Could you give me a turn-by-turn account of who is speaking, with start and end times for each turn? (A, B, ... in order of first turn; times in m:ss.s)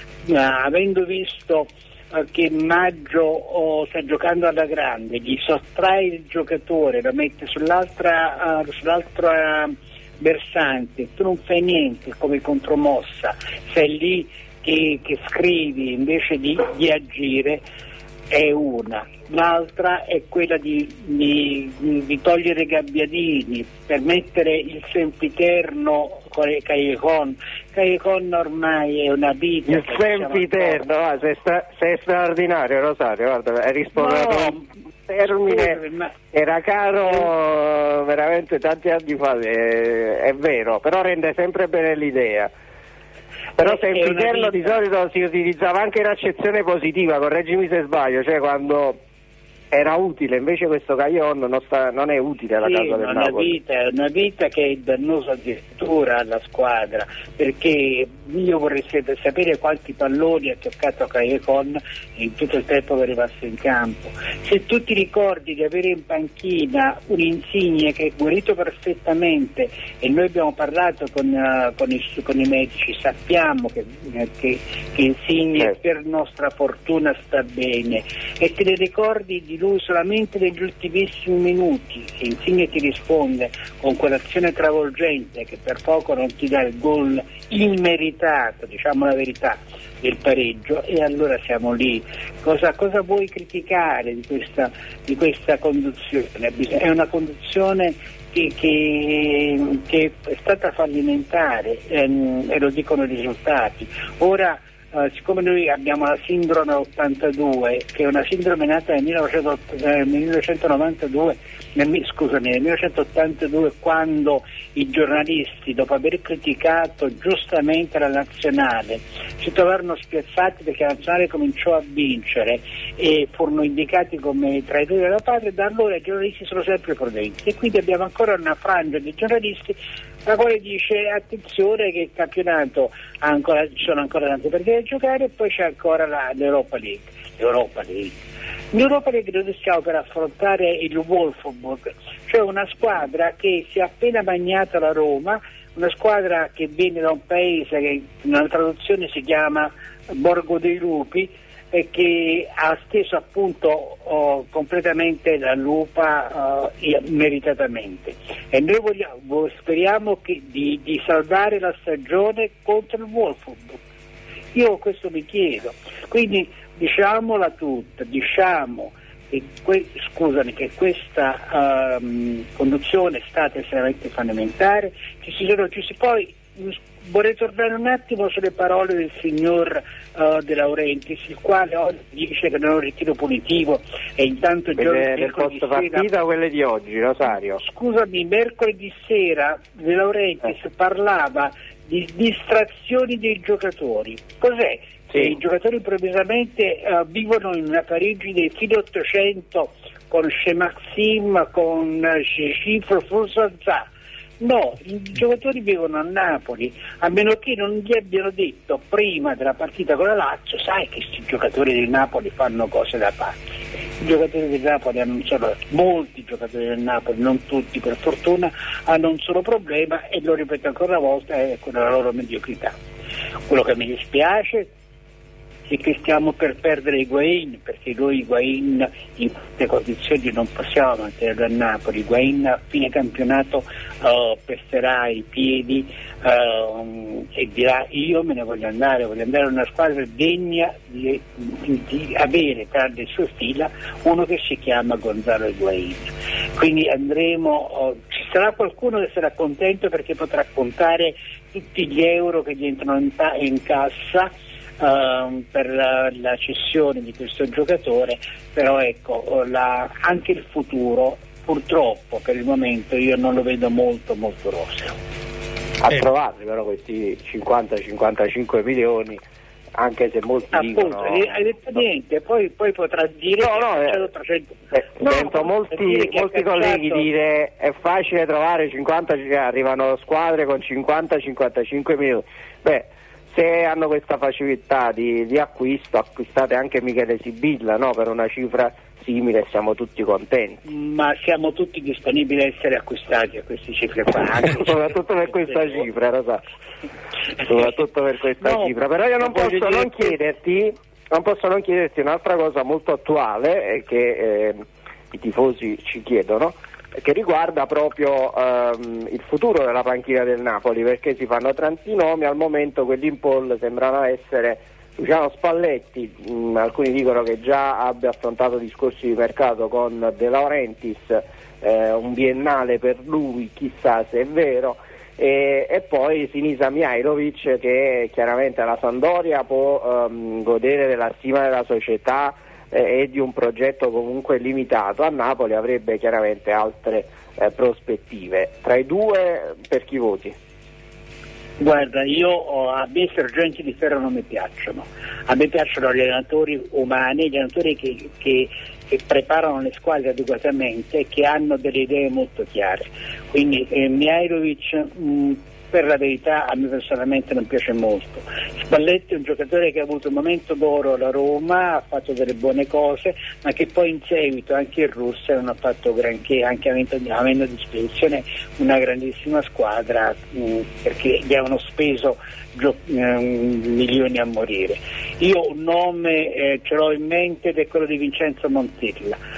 0:00.3-0:17.6 A
0:18.3-0:30.9 A
0:29.6-0:34.6 B
0:34.0-0:34.6 A
0:35.1-0:42.5 B
0:35.3-0:36.1 A
0:43.6-0:49.0 B
0:43.6-0:44.8 A
0:49.7-0:53.6 B
0:52.6-2:18.2 A
2:18.7-2:43.8 A
2:44.5-3:06.1 A
3:04.8-3:07.6 B
3:07.6-3:23.9 A
3:24.4-3:33.5 A
3:34.0-3:42.8 A
3:43.5-3:44.7 A
3:45.7-4:25.0 A
4:25.8-4:29.2 B
4:29.8-4:31.4 B
4:30.5-4:37.1 A
4:33.4-4:34.0 B
4:34.8-4:50.6 B
4:50.7-4:55.9 A
4:54.5-4:56.4 B
4:57.4-5:40.4 B
4:58.4-5:00.1 A
5:41.6-6:19.2 A